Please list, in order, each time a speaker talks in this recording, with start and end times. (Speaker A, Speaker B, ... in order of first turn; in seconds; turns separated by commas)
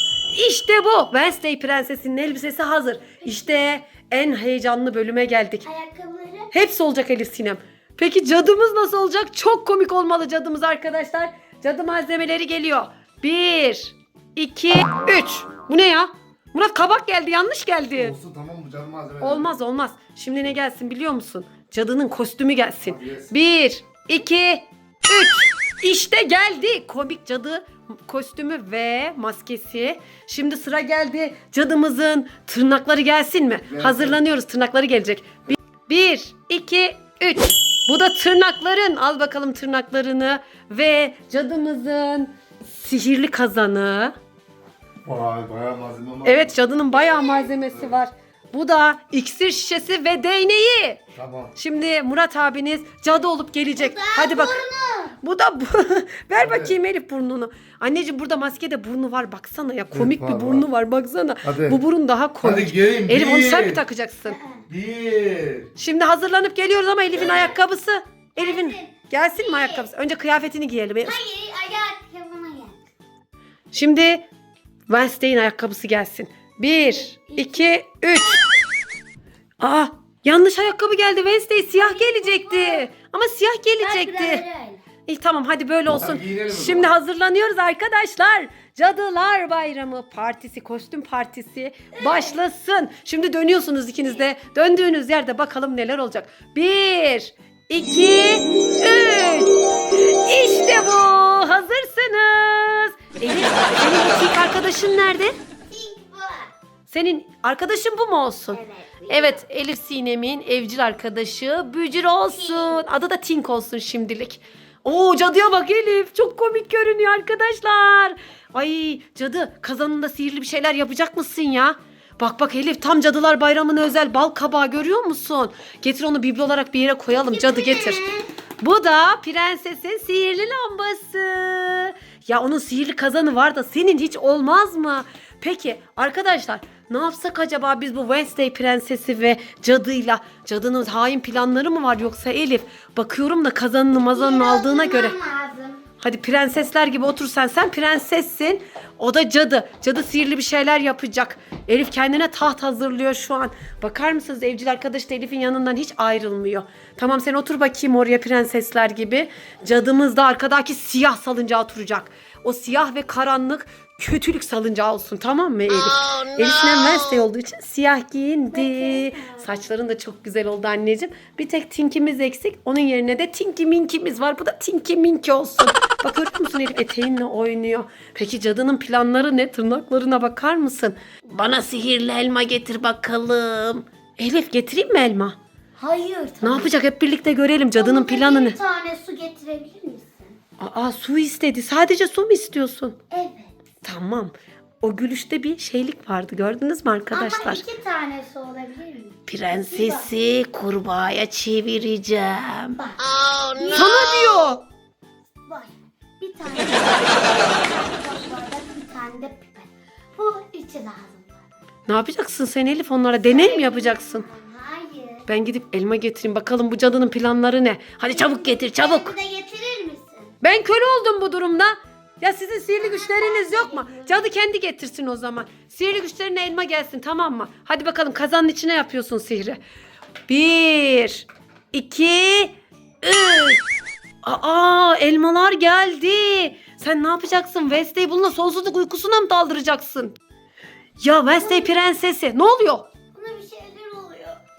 Speaker A: 0.3-5.7, Speaker B: 5.6-6.5, Speaker A: 6.5-18.1, Speaker C: 17.9-19.5, Speaker A: 19.2-44.1, Speaker C: 22.8-23.3, Speaker C: 33.7-34.2, Speaker C: 45.0-46.5, Speaker A: 46.2-51.0, Speaker B: 46.9-47.5, Speaker C: 47.7-47.9, Speaker C: 51.1-51.5, Speaker A: 51.5-54.6, Speaker B: 53.7-55.1, Speaker A: 55.2-64.4, Speaker C: 56.4-56.7, Speaker C: 59.9-60.6, Speaker C: 61.4-61.8, Speaker C: 62.4-63.8, Speaker B: 64.3-64.6, Speaker C: 64.7-65.7, Speaker A: 65.8-71.2, Speaker B: 67.2-67.5, Speaker B: 68.4-69.9, Speaker B: 71.0-72.8, Speaker A: 73.7-74.2, Speaker A: 74.9-78.4, Speaker B: 76.8-77.7, Speaker A: 79.6-84.4, Speaker B: 81.7-82.9, Speaker B: 83.8-84.8, Speaker A: 85.1-105.3, Speaker C: 85.9-86.9, Speaker B: 91.9-92.4, Speaker B: 105.7-106.5, Speaker A: 106.9-128.0, Speaker B: 108.5-109.4, Speaker B: 112.3-112.8, Speaker B: 127.1-128.2, Speaker A: 128.6-145.2, Speaker B: 144.1-145.8, Speaker A: 146.0-185.4, Speaker B: 168.5-169.6, Speaker B: 185.8-186.8, Speaker A: 186.4-188.6, Speaker B: 187.7-190.4, Speaker A: 190.6-192.9, Speaker B: 193.1-193.6, Speaker A: 193.8-197.6, Speaker B: 197.1-200.1, Speaker A: 199.3-202.8, Speaker B: 202.8-203.0, Speaker B: 203.5-204.0, Speaker A: 203.7-204.6, Speaker B: 205.5-211.4, Speaker A: 211.9-214.2, Speaker B: 213.1-215.3, Speaker A: 215.3-219.1, Speaker B: 218.1-220.3, Speaker A: 220.4-229.6, Speaker B: 222.8-224.3, Speaker A: 230.3-233.6, Speaker A: 234.2-240.2, Speaker A: 241.0-242.9, Speaker B: 241.3-241.7, Speaker B: 243.1-244.4